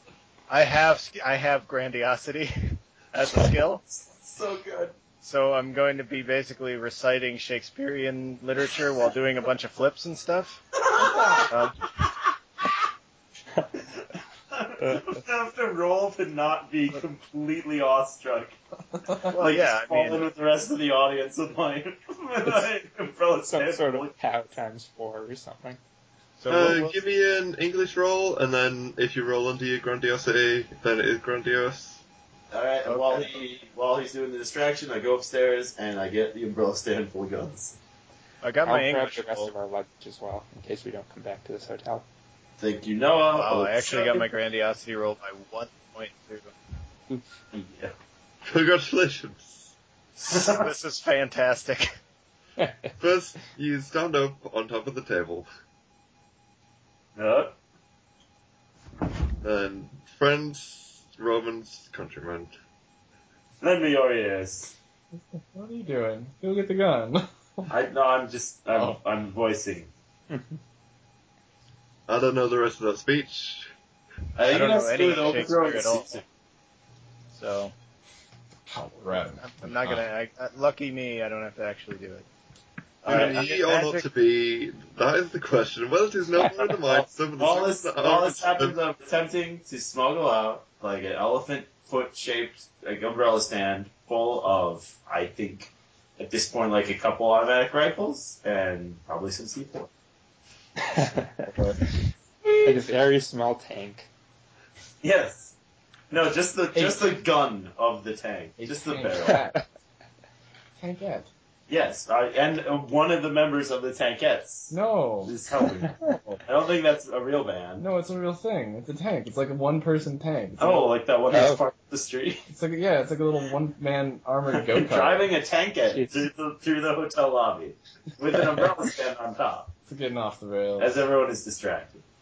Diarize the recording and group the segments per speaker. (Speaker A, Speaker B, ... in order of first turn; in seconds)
Speaker A: 0.5-3.8, 5.2-10.8, 11.5-11.9, 19.3-20.3, 26.4-27.0, 32.9-33.4, 38.4-39.5, 43.3-46.5, 50.2-51.9, 74.5-76.2, 77.3-77.7, 79.4-82.3, 83.0-84.0
Speaker B: 3.9-4.9, 10.8-11.6, 14.5-18.6, 19.1-24.1, 32.5-37.8, 42.6-44.3, 47.5-47.9, 50.2-50.7, 57.2-57.5, 63.6-64.7, 67.7-69.9, 74.4-76.2, 83.0-83.4, 86.8-99.9, 105.0-105.5, 106.1-109.4, 111.7-114.7, 115.2-117.9, 120.6-122.4, 124.7-129.7, 130.8-132.0
Speaker C: 14.8-15.2, 23.5-25.8, 38.6-42.0, 52.6-52.9, 70.3-70.6, 100.8-101.5, 102.6-104.1, 109.3-109.6, 121.3-121.6, 125.9-126.3
Speaker D: 26.5-32.0, 48.4-49.7, 53.0-55.5, 59.4-62.5, 72.1-73.7, 83.1-88.8
Speaker E: 65.3-67.7, 68.7-69.0, 78.7-80.0, 102.5-102.7, 106.7-107.0, 108.6-109.6, 110.8-111.3, 114.7-115.3, 116.0-116.4, 117.8-120.9, 122.5-125.3, 129.9-131.0